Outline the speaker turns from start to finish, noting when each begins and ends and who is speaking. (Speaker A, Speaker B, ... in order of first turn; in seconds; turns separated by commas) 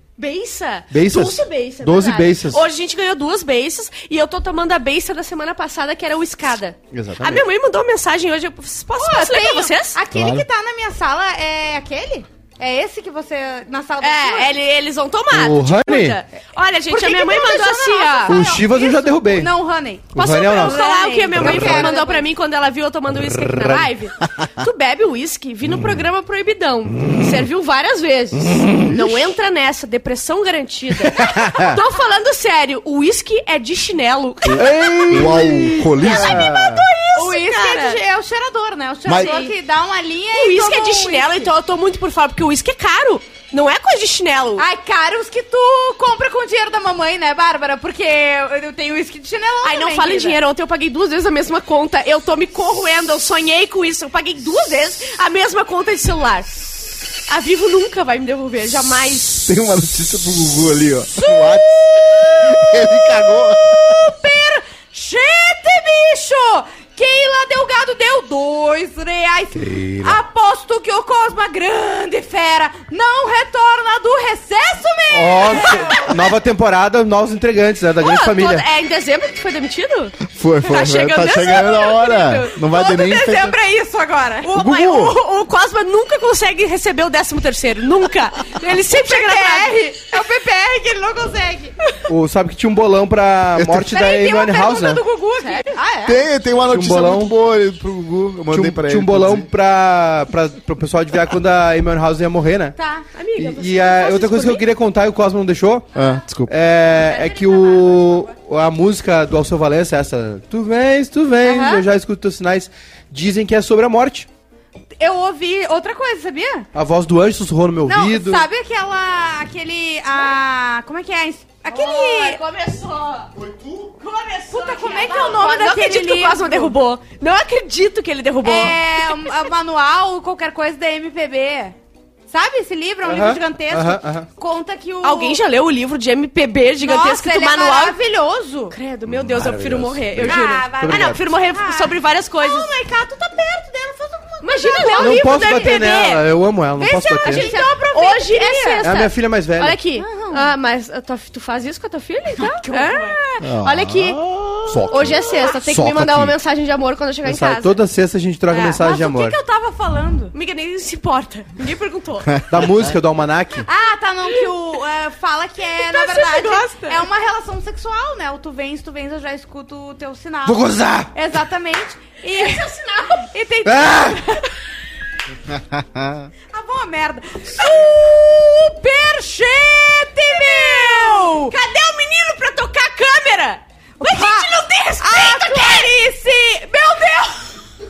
Speaker A: 0.2-10.0, Speaker B: 0.9-2.6, Speaker B: 6.9-7.4, Speaker C: 9.0-14.5, Speaker B: 10.1-10.4, Speaker A: 14.0-18.5, Speaker B: 15.3-16.2, Speaker C: 16.9-22.3, Speaker B: 18.3-19.5, Speaker B: 20.1-20.8, Speaker A: 20.2-38.0, Speaker B: 21.4-21.9, Speaker B: 23.4-23.9, Speaker B: 28.6-29.2, Speaker B: 31.2-31.8, Speaker B: 34.5-36.8, Speaker D: 35.1-36.5, Speaker C: 37.1-41.5, Speaker D: 39.1-39.3, Speaker A: 39.1-39.5, Speaker A: 40.3-44.6, Speaker C: 44.6-50.4, Speaker A: 49.6-59.5, Speaker D: 59.5-61.8, Speaker C: 61.2-76.2, Speaker D: 62.4-64.0, Speaker B: 69.5-70.2, Speaker B: 75.1-78.7, Speaker A: 78.0-82.6, Speaker D: 80.3-83.6, Speaker C: 82.6-84.5, Speaker A: 84.4-89.8, Speaker D: 84.5-85.2, Speaker C: 88.6-91.8, Speaker B: 92.1-95.0, Speaker D: 93.5-94.0, Speaker C: 94.0-96.2, Speaker A: 94.1-95.8, Speaker D: 96.0-99.5, Speaker B: 96.7-97.3, Speaker B: 98.5-102.8, Speaker C: 102.8-103.1, Speaker A: 103.1-104.7, Speaker B: 103.4-105.9, Speaker D: 106.0-106.5, Speaker B: 106.5-114.3, Speaker C: 107.0-108.3, Speaker C: 111.4-111.8, Speaker C: 115.0-116.7, Speaker B: 116.7-118.5, Speaker C: 117.9-122.4, Speaker A: 121.7-123.3, Speaker D: 123.4-123.9, Speaker A: 124.0-128.8, Speaker C: 124.4-126.8, Speaker C: 128.4-131.8, Speaker C: 132.3-135.4, Speaker B: 133.1-134.3, Speaker A: 135.0-138.0, Speaker C: 136.8-138.8, Speaker A: 138.7-142.7, Speaker B: 139.1-141.2, Speaker C: 140.2-145.9, Speaker A: 144.4-146.2, Speaker B: 145.0-147.5, Speaker C: 146.8-149.0, Speaker A: 147.2-154.2, Speaker B: 148.8-149.8, Speaker C: 150.0-150.5, Speaker C: 152.4-153.2, Speaker D: 153.4-154.9, Speaker B: 154.7-156.3, Speaker A: 154.9-157.8, Speaker B: 157.2-159.4, Speaker C: 158.5-160.3, Speaker A: 160.3-162.4, Speaker B: 162.5-163.7, Speaker C: 163.7-174.5, Speaker A: 165.7-167.0, Speaker B: 170.4-171.1, Speaker A: 172.3-173.3, Speaker B: 173.7-174.2, Speaker D: 175.5-176.3, Speaker C: 176.5-181.6, Speaker A: 180.3-185.9, Speaker C: 184.0-187.5